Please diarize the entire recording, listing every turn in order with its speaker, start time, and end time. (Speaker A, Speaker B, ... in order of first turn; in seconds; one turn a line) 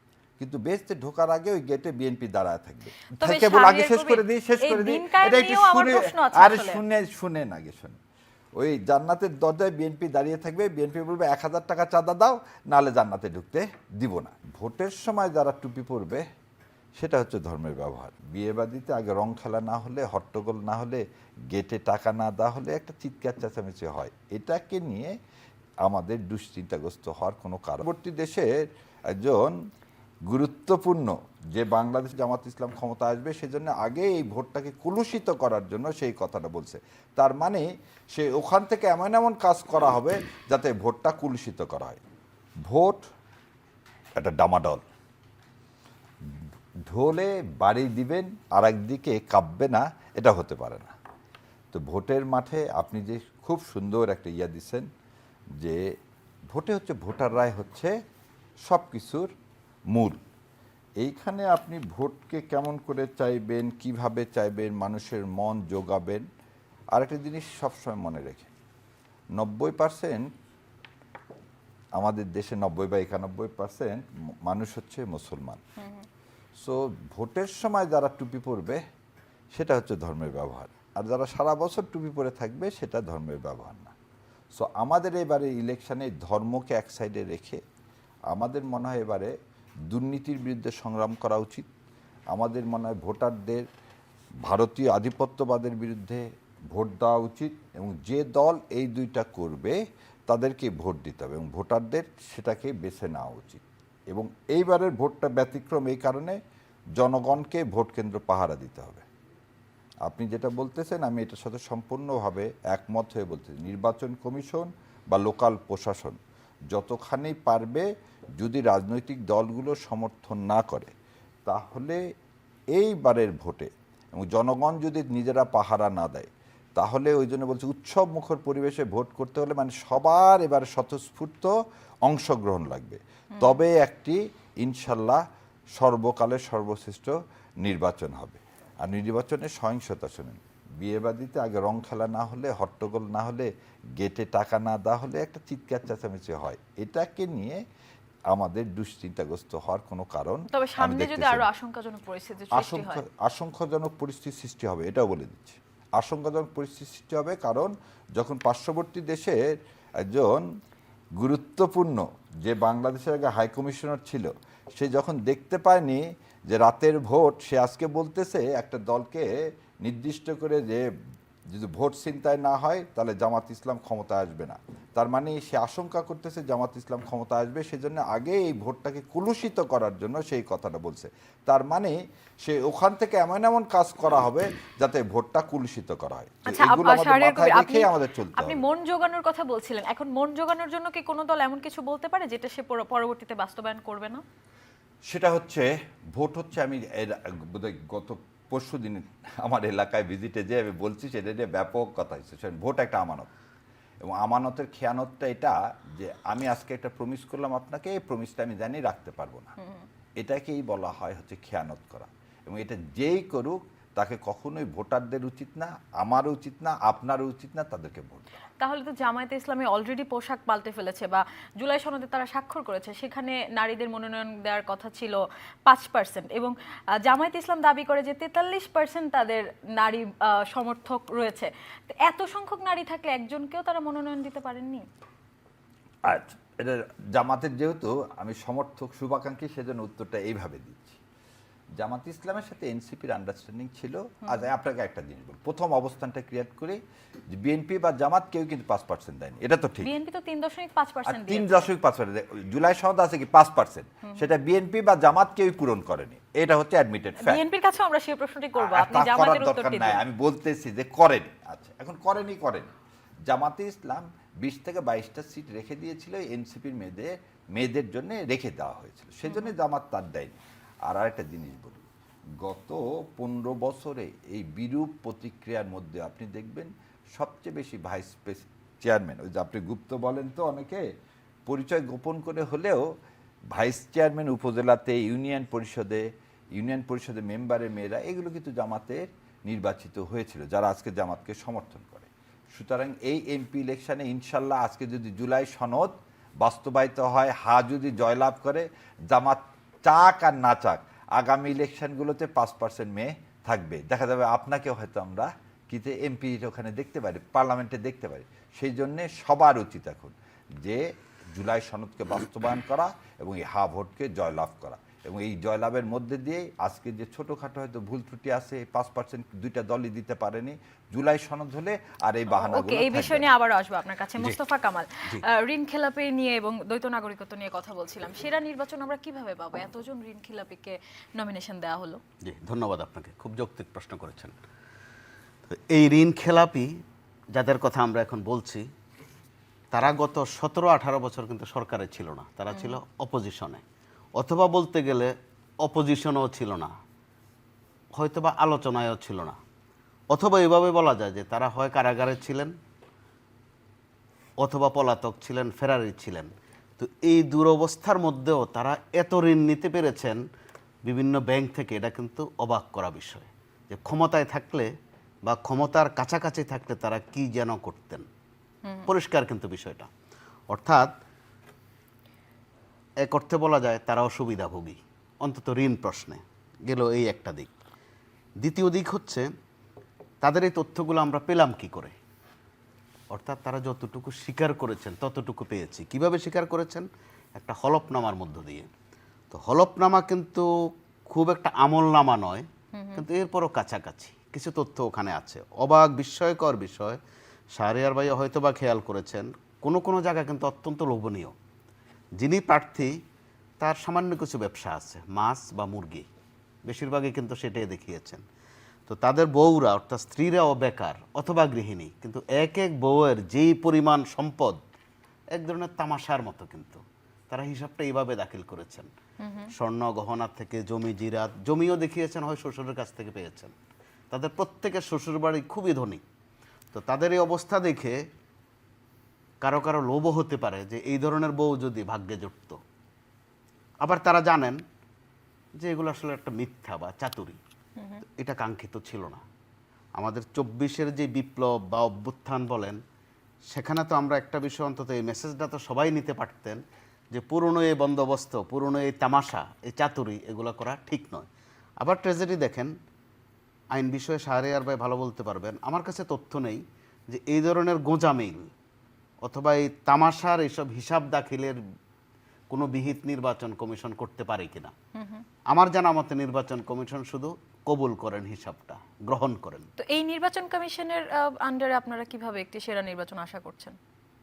Speaker A: 0.4-8.0
Speaker B: 3.2-6.8
Speaker A: 8.6-16.2
Speaker A: 17.0-25.1
Speaker A: 25.8-28.5
Speaker A: 29.1-29.5
Speaker A: 30.3-42.0
Speaker A: 42.7-43.0
Speaker A: 44.2-44.8
Speaker A: 46.9-50.9
Speaker A: 51.7-54.9
Speaker A: 56.5-57.9
Speaker A: 58.7-59.3
Speaker A: 59.9-60.2
Speaker A: 61.0-66.2
Speaker A: 66.9-68.5
Speaker A: 69.4-70.3
Speaker A: 72.0-75.6
Speaker B: 75.8-76.0
Speaker A: 76.6-78.8
Speaker A: 79.5-83.9
Speaker A: 84.5-87.6
Speaker A: 88.3-89.3
Speaker A: 89.9-91.7
Speaker A: 92.3-93.7
Speaker A: 94.5-99.8
Speaker A: 100.3-106.4
Speaker A: 107.0-109.0
Speaker A: 110.0-116.2
Speaker A: 116.7-117.8
Speaker A: 118.4-120.9
Speaker A: 121.5-122.0
Speaker A: 122.7-131.5
Speaker A: 132.1-135.2
Speaker A: 135.8-147.6
Speaker A: 148.3-151.4
Speaker B: 150.5-153.0
Speaker A: 152.5-159.4
Speaker A: 160.0-160.4
Speaker A: 161.2-169.3
Speaker A: 169.8-170.8
Speaker A: 171.5-188.6
Speaker B: 186.4-194.2
Speaker A: 195.1-203.3
Speaker A: 204.0-209.5
Speaker A: 210.2-218.3
Speaker B: 218.6-234.9
Speaker A: 236.1-241.0
Speaker A: 241.8-246.8
Speaker A: 247.3-249.9
Speaker B: 249.8-251.7
Speaker A: 251.0-257.4
Speaker B: 257.2-260.0
Speaker A: 258.6-262.7
Speaker A: 263.3-271.8
Speaker B: 269.2-269.5
Speaker A: 272.4-280.8
Speaker A: 281.5-282.8
Speaker A: 283.5-286.0
Speaker A: 286.6-323.3
Speaker B: 322.3-332.0
Speaker C: 332.2-334.4
Speaker C: 335.5-336.7
Speaker C: 337.3-338.7
Speaker C: 339.7-343.6
Speaker B: 342.5-342.8
Speaker C: 344.2-346.7
Speaker C: 347.9-349.4
Speaker C: 350.1-352.5
Speaker C: 354.4-360.2
Speaker C: 360.9-364.7
Speaker C: 365.2-368.1
Speaker B: 368.6-368.9
Speaker C: 368.9-369.9
Speaker C: 370.5-370.9
Speaker C: 373.0-377.5
Speaker C: 378.4-379.3
Speaker C: 380.2-381.9
Speaker C: 383.1-388.7
Speaker C: 389.3-390.5
Speaker C: 391.1-397.0
Speaker B: 392.7-393.1
Speaker C: 397.5-401.3
Speaker C: 402.2-403.0
Speaker C: 403.6-406.1
Speaker C: 406.7-408.2
Speaker C: 408.9-414.6
Speaker C: 415.4-418.9
Speaker B: 419.2-419.5
Speaker C: 419.5-423.5
Speaker C: 424.1-426.0
Speaker C: 426.7-428.0
Speaker C: 429.4-432.6
Speaker C: 433.8-434.6
Speaker C: 435.6-437.4
Speaker B: 437.8-438.0
Speaker C: 438.0-439.2
Speaker C: 440.0-442.8
Speaker C: 443.5-446.6
Speaker C: 447.1-451.3
Speaker C: 451.8-452.7
Speaker C: 453.7-458.5
Speaker C: 459.2-461.6
Speaker C: 462.5-464.7
Speaker B: 464.9-465.2
Speaker C: 465.5-469.7
Speaker B: 469.8-473.8